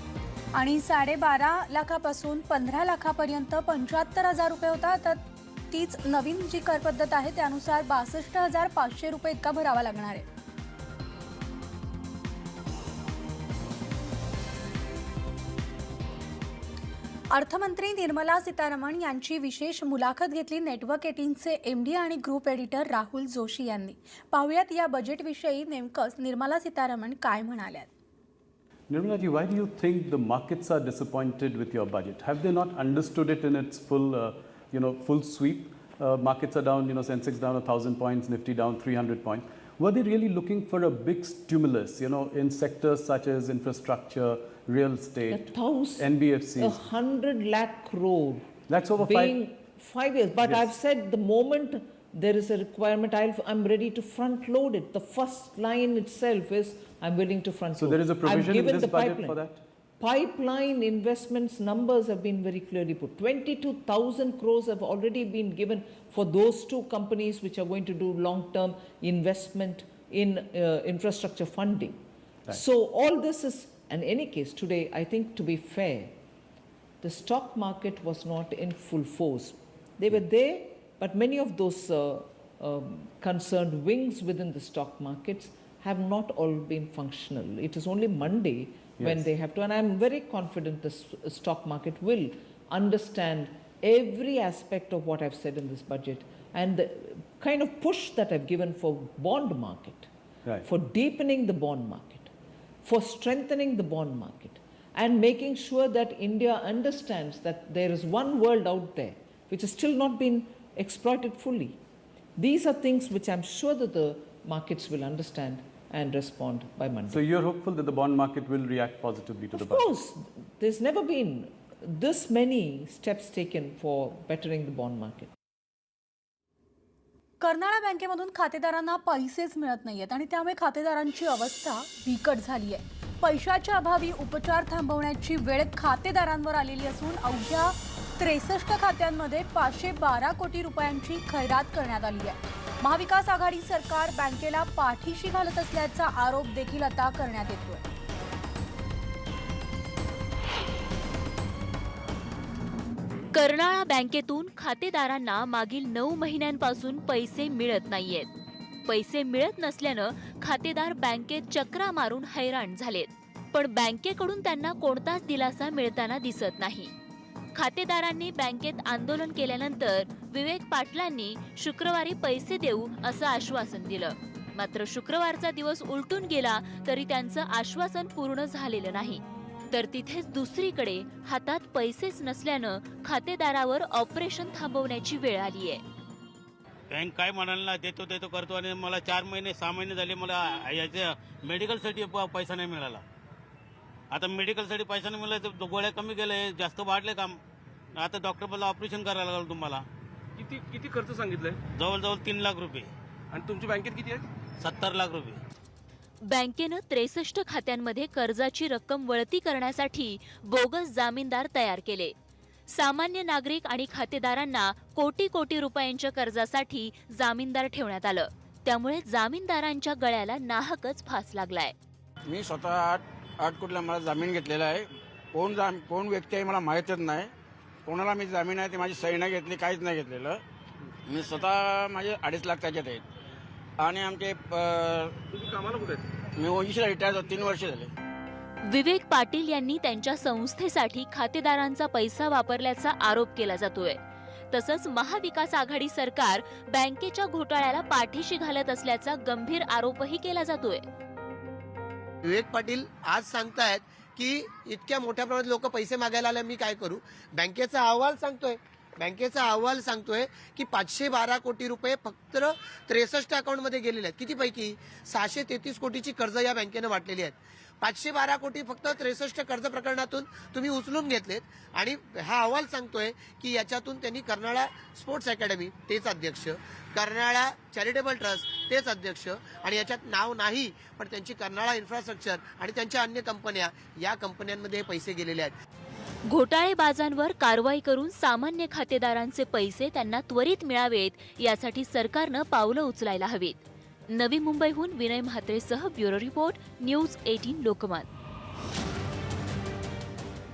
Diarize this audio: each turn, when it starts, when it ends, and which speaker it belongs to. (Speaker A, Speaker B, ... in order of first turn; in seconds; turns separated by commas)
Speaker A: 0.5-10.2, Speaker A: 17.3-27.9, Speaker B: 28.9-46.9, Speaker C: 45.3-59.5, Speaker B: 48.7-49.4, Speaker B: 50.4-50.6, Speaker B: 57.8-59.6, Speaker C: 60.0-76.2, Speaker C: 77.0-100.1, Speaker C: 100.6-102.3, Speaker C: 102.8-111.8, Speaker C: 112.4-117.3, Speaker B: 117.1-119.8, Speaker C: 119.5-125.3, Speaker A: 127.4-147.9, Speaker D: 153.3-158.3, Speaker D: 158.9-166.9, Speaker D: 167.5-185.8, Speaker E: 186.9-193.0, Speaker E: 194.1-197.4, Speaker E: 197.9-199.8, Speaker F: 200.4-201.6, Speaker E: 201.6-204.0, Speaker F: 203.3-204.2, Speaker E: 204.6-205.4, Speaker D: 206.3-212.1, Speaker D: 212.7-221.7, Speaker E: 222.3-227.3, Speaker E: 227.8-230.4, Speaker E: 231.1-233.0, Speaker E: 233.8-235.7, Speaker E: 236.3-237.9, Speaker D: 238.7-244.0, Speaker D: 244.5-250.8, Speaker G: 252.2-285.5, Speaker D: 286.3-293.6, Speaker D: 294.1-298.1